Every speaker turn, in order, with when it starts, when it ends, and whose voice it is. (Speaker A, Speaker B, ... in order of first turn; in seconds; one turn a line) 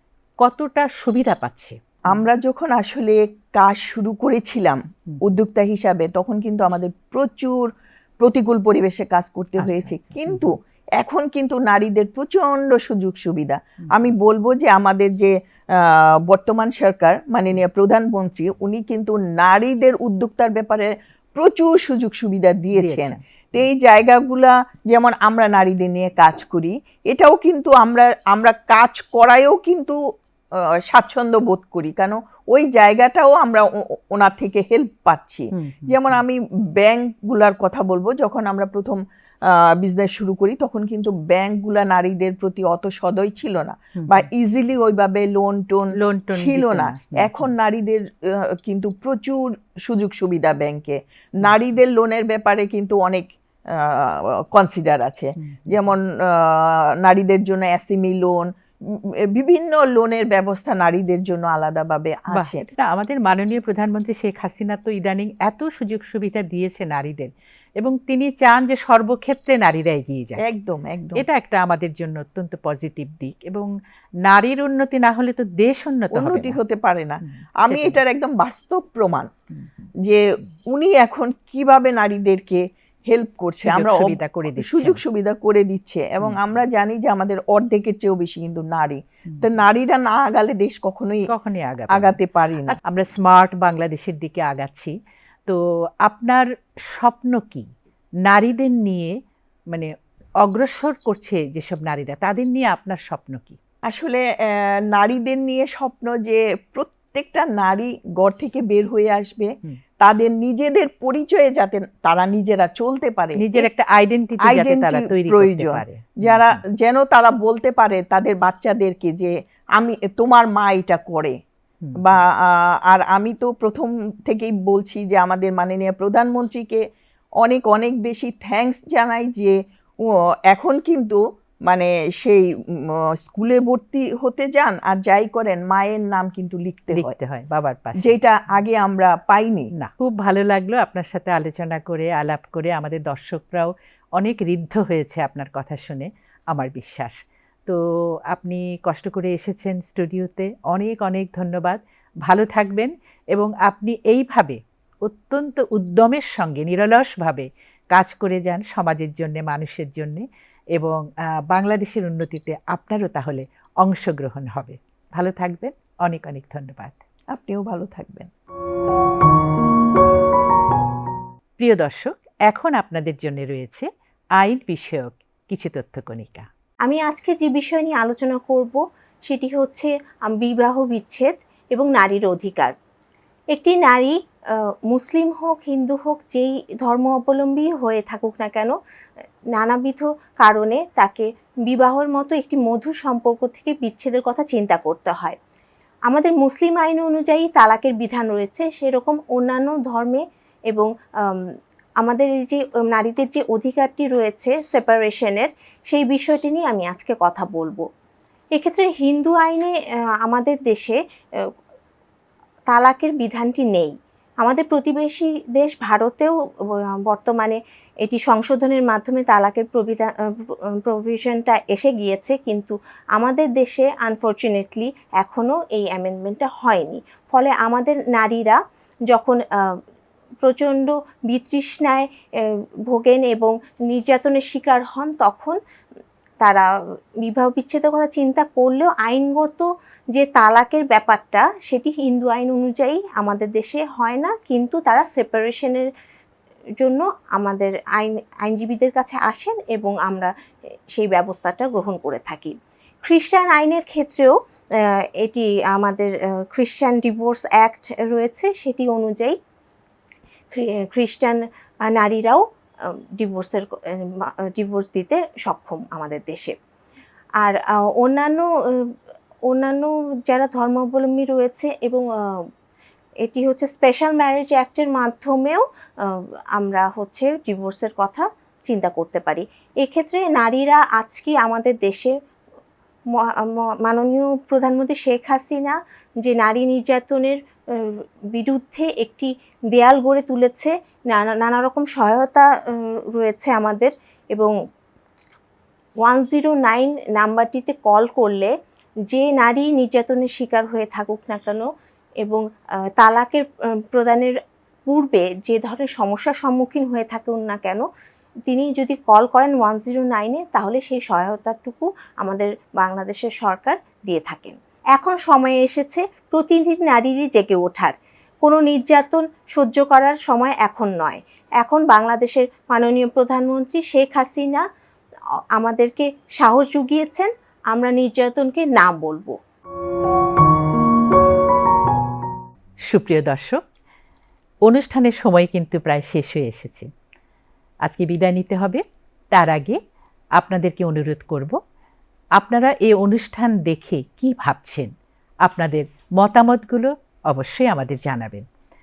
Speaker A: 0.4-2.2
Speaker B: 2.1-30.0
Speaker A: 9.6-10.5
Speaker A: 22.7-23.2
Speaker B: 30.6-62.7
Speaker A: 35.5-36.0
Speaker A: 44.0-44.3
Speaker A: 46.0-47.5
Speaker A: 55.4-55.9
Speaker A: 62.3-70.4
Speaker B: 70.4-71.2
Speaker A: 71.2-73.7
Speaker A: 74.2-76.6
Speaker B: 76.1-79.3
Speaker A: 77.2-78.0
Speaker A: 79.6-79.9
Speaker B: 80.0-91.3
Speaker A: 83.6-85.0
Speaker A: 91.3-94.9
Speaker B: 91.9-92.8
Speaker A: 95.5-97.7
Speaker A: 98.2-99.2
Speaker A: 99.7-103.6
Speaker B: 103.9-113.7
Speaker A: 113.4-116.6
Speaker B: 114.4-121.3
Speaker A: 121.8-122.2
Speaker B: 122.0-126.8
Speaker B: 127.4-137.1
Speaker A: 136.9-138.2
Speaker B: 138.0-139.7
Speaker A: 139.7-167.0
Speaker B: 167.3-168.3
Speaker A: 171.6-176.5
Speaker C: 176.8-182.7
Speaker C: 183.5-188.7
Speaker C: 189.5-195.4
Speaker C: 196.1-207.8
Speaker C: 208.5-211.5
Speaker C: 212.7-229.8
Speaker C: 230.4-235.6
Speaker C: 236.4-236.7
Speaker C: 237.2-245.9
Speaker C: 246.8-250.3
Speaker C: 250.9-259.4
Speaker C: 260.5-266.6
Speaker C: 267.4-268.9
Speaker C: 269.4-272.5
Speaker C: 273.2-282.1
Speaker C: 283.1-294.5
Speaker C: 296.0-298.5
Speaker C: 299.1-301.6
Speaker C: 302.2-304.4
Speaker C: 304.9-307.9
Speaker C: 308.5-324.6
Speaker C: 325.5-329.4
Speaker A: 332.9-333.6
Speaker A: 334.6-336.9
Speaker A: 337.8-339.8
Speaker A: 340.4-341.6
Speaker A: 342.4-344.9
Speaker A: 345.4-348.4